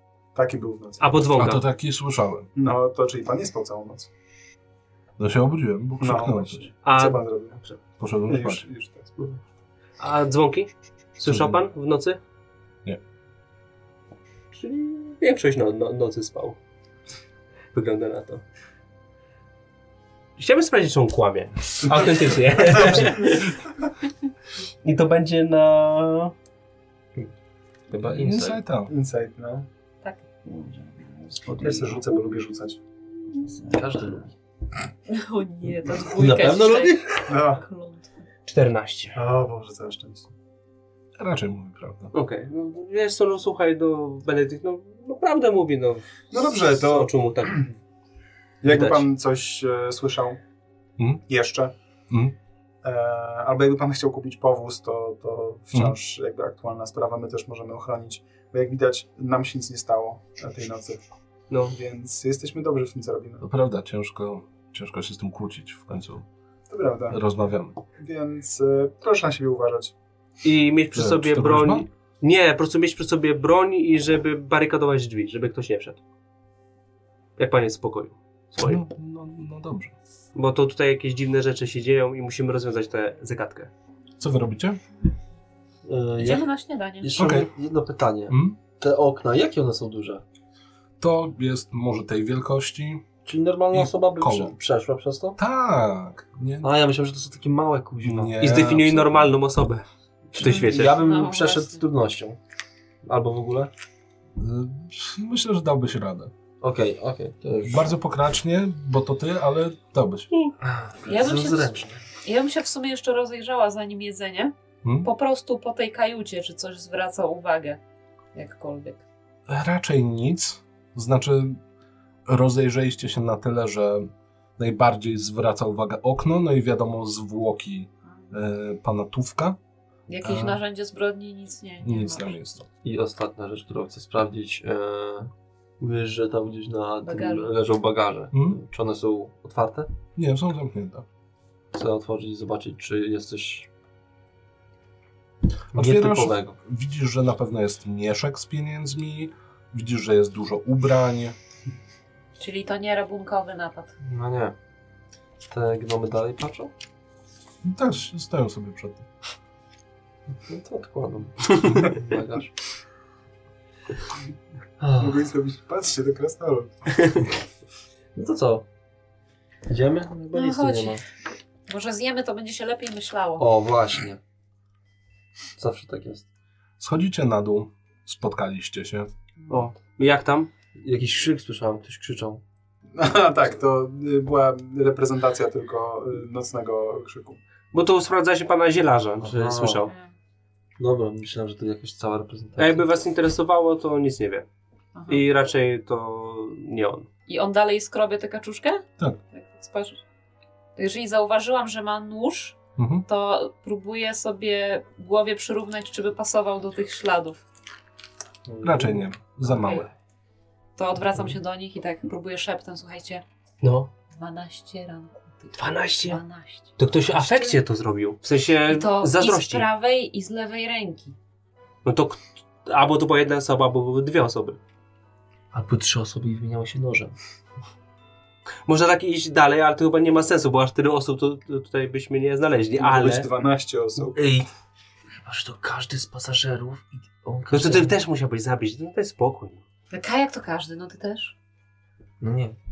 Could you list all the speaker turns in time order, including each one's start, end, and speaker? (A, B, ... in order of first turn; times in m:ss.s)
0:00.4-0:01.2 A
0:01.0-0:01.6 B
0:01.4-0:02.5 C
0:02.6-0:04.1 A
0:05.2-0:06.7 C
0:06.0-0:07.6 A
0:06.8-0:07.8 B
0:08.0-0:08.6 C
0:08.3-0:09.1 A
0:10.0-0:12.2 B
0:11.2-0:11.6 C
0:14.5-0:16.6 B
0:17.7-0:18.4 B
0:20.4-0:23.6 B
0:24.8-0:26.3 B
0:27.9-0:28.6 D
0:28.0-0:28.9 C
0:28.9-0:29.7 A
0:30.0-0:31.4 E
0:31.5-0:32.8 A
0:33.5-0:34.3 D
0:35.1-0:38.1 E
0:36.2-0:37.3 D
0:37.3-0:37.6 A
0:38.5-0:39.2 B
0:39.2-0:40.3 A
0:41.2-0:42.1 C
0:42.1-0:47.6 B
0:46.3-0:47.7 A
0:48.6-0:50.4 A
0:48.7-0:49.1 B
0:51.3-0:51.7 A
0:52.1-0:52.4 C
0:52.8-1:01.0 A
1:01.5-1:01.8 B
1:01.7-1:03.4 A
1:03.4-1:06.3 C
1:06.7-1:07.2 A
1:07.1-1:07.8 C
1:08.0-1:09.9 A
1:10.4-1:16.0 B
1:10.9-1:11.9 C
1:17.4-1:18.8 B
1:18.6-1:20.0 C
1:20.4-1:23.7 B
1:24.2-1:24.8 C
1:25.9-1:26.5 D
1:26.2-1:27.2 E
1:27.0-1:30.2 D
1:27.2-1:27.5 C
1:28.3-1:28.6 C
1:31.0-1:33.1 C
1:33.2-1:35.4 D
1:33.7-1:34.5 C
1:35.4-1:36.7 C
1:36.6-1:38.4 D
1:38.0-1:39.3 C
1:38.4-1:41.0 B
1:40.4-1:42.4 D
1:40.4-1:41.8 E
1:43.0-1:43.7 D
1:44.4-1:46.3 C
1:46.6-1:47.9 D
1:47.6-1:50.3 C
1:50.6-1:52.0 D
1:51.1-1:57.8 E
1:58.3-1:59.0 E
1:59.5-2:01.6 C
2:02.3-2:09.6 C
2:10.1-2:12.4 E
2:10.2-2:10.6 C
2:11.8-2:12.7 C
2:12.8-2:19.9 D
2:17.0-2:17.5 E
2:18.3-2:18.6 C
2:20.2-2:21.1 C
2:21.7-2:23.7 D
2:25.7-2:26.6 D
2:25.7-2:31.4 C
2:32.4-2:33.9 E
2:34.0-2:34.6 D
2:35.5-2:36.7 D
2:37.6-2:39.1 C
2:40.3-2:42.5 D
2:44.8-2:45.2 D
2:45.0-2:47.0 A
2:48.2-2:48.7 D
2:49.7-2:51.0 D
2:50.3-2:51.0 E
2:51.7-2:53.5 E
2:53.4-2:54.2 D
2:55.6-2:56.3 D
2:56.8-2:59.1 C
2:59.5-3:00.5 B
3:00.8-3:02.4 D
3:02.9-3:07.4 A
3:07.7-3:09.9 B
3:09.2-3:09.9 D
3:09.8-3:10.1 E
3:10.8-3:12.8 D
3:12.6-3:14.5 B
3:15.0-3:15.2 E
3:15.1-3:17.1 B
3:17.3-3:20.0 E
3:20.8-3:27.4 E
3:22.8-3:23.1 C
3:28.5-3:29.0 D
3:28.6-3:29.9 C
3:29.5-3:29.8 E
3:30.8-3:33.2 E
3:33.6-3:33.9 B
3:34.1-3:37.6 E
3:35.6-3:36.2 B
3:36.8-3:39.7 B
3:38.7-3:41.2 E
3:41.8-3:44.6 B
3:45.5-3:47.2 D
3:48.7-3:53.3 B
3:52.8-3:54.2 A
3:54.0-3:54.5 D
3:55.2-3:57.9 D
3:57.5-3:59.6 B
3:59.9-4:01.4 E
4:02.2-4:02.6 D